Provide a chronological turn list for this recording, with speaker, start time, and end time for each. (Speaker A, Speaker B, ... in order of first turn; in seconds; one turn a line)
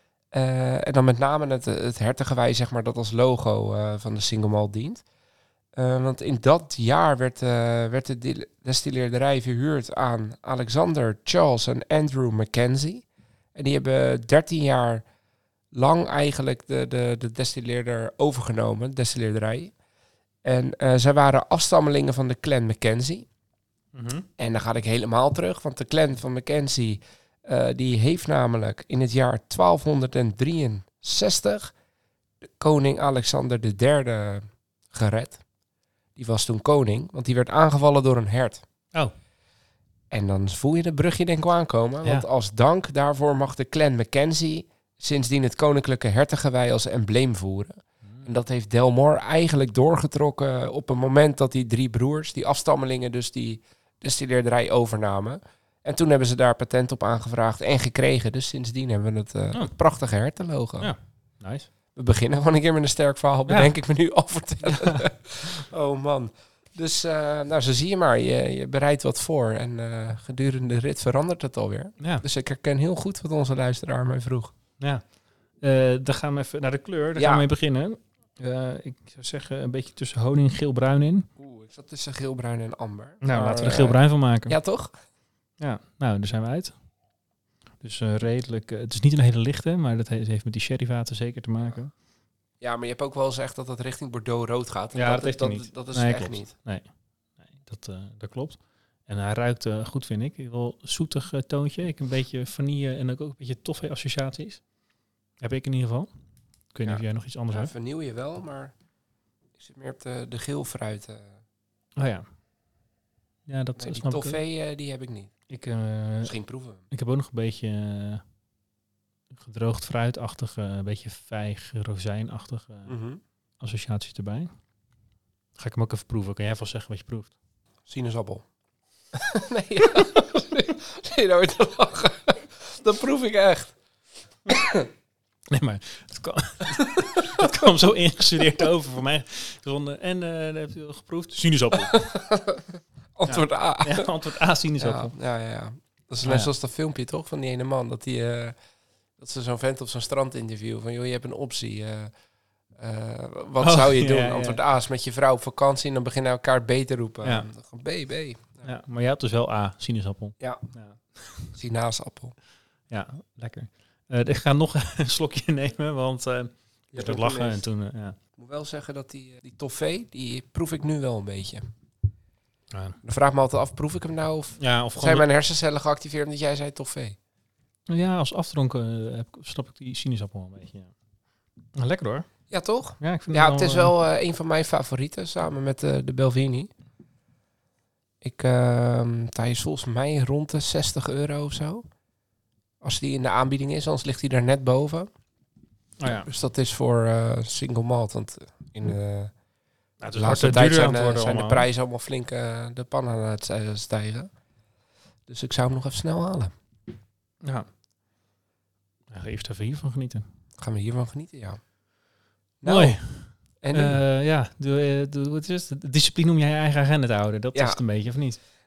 Speaker A: 0.3-5.0
Speaker A: 5.7-15.0
Speaker A: 15.7-19.7
Speaker A: 20.4-23.2
Speaker B: 23.9-24.3
Speaker A: 24.4-31.7
Speaker A: 32.6-35.4
Speaker A: 36.1-38.6
Speaker A: 40.1-60.9
Speaker B: 48.0-48.3
Speaker B: 60.8-61.7
Speaker A: 62.0-74.5
Speaker B: 64.7-65.0
Speaker B: 72.0-72.2
Speaker B: 74.8-81.3
Speaker A: 77.2-77.4
Speaker A: 81.4-84.9
Speaker B: 83.2-84.5
Speaker B: 85.6-86.8
Speaker B: 87.8-91.9
Speaker A: 92.6-96.5
Speaker B: 94.9-96.9
Speaker B: 97.4-104.6
Speaker B: 105.4-106.1
Speaker B: 106.7-107.7
Speaker A: 106.8-108.7
Speaker A: 109.6-111.4
Speaker B: 112.0-112.2
Speaker B: 113.5-114.4
Speaker A: 113.8-115.3
Speaker B: 115.5-116.3
Speaker A: 116.2-116.8
Speaker B: 116.9-118.2
Speaker B: 119.4-122.9
Speaker A: 122.9-123.2
Speaker B: 123.6-124.5
Speaker B: 125.6-127.3
Speaker A: 127.9-128.4
Speaker A: 129.1-133.8
Speaker A: 134.5-134.9
Speaker B: 135.5-142.0
Speaker A: 136.8-137.7
Speaker A: 141.9-144.1
Speaker B: 143.3-145.1
Speaker A: 144.8-148.6
Speaker B: 146.2-146.5
Speaker A: 149.2-152.1
Speaker A: 152.8-158.7
Speaker B: 153.6-154.6
Speaker B: 158.6-161.5
Speaker A: 161.5-162.3
Speaker B: 162.9-168.2
Speaker A: 166.9-167.6
Speaker A: 168.3-171.7
Speaker B: 172.7-173.0
Speaker A: 173.0-177.2
Speaker B: 174.6-175.2
Speaker B: 177.9-180.9
Speaker B: 181.7-182.3
Speaker A: 182.5-186.7
Speaker B: 183.0-183.9
Speaker A: 188.2-191.8
Speaker A: 192.8-195.1
Speaker B: 196.0-196.3
Speaker A: 196.0-199.3
Speaker B: 200.0-201.7
Speaker A: 200.1-204.3
Speaker A: 205.3-206.5
Speaker B: 209.1-210.2
Speaker A: 210.6-211.6
Speaker A: 212.6-213.0
Speaker B: 212.6-218.4
Speaker A: 213.6-214.0
Speaker A: 217.5-217.8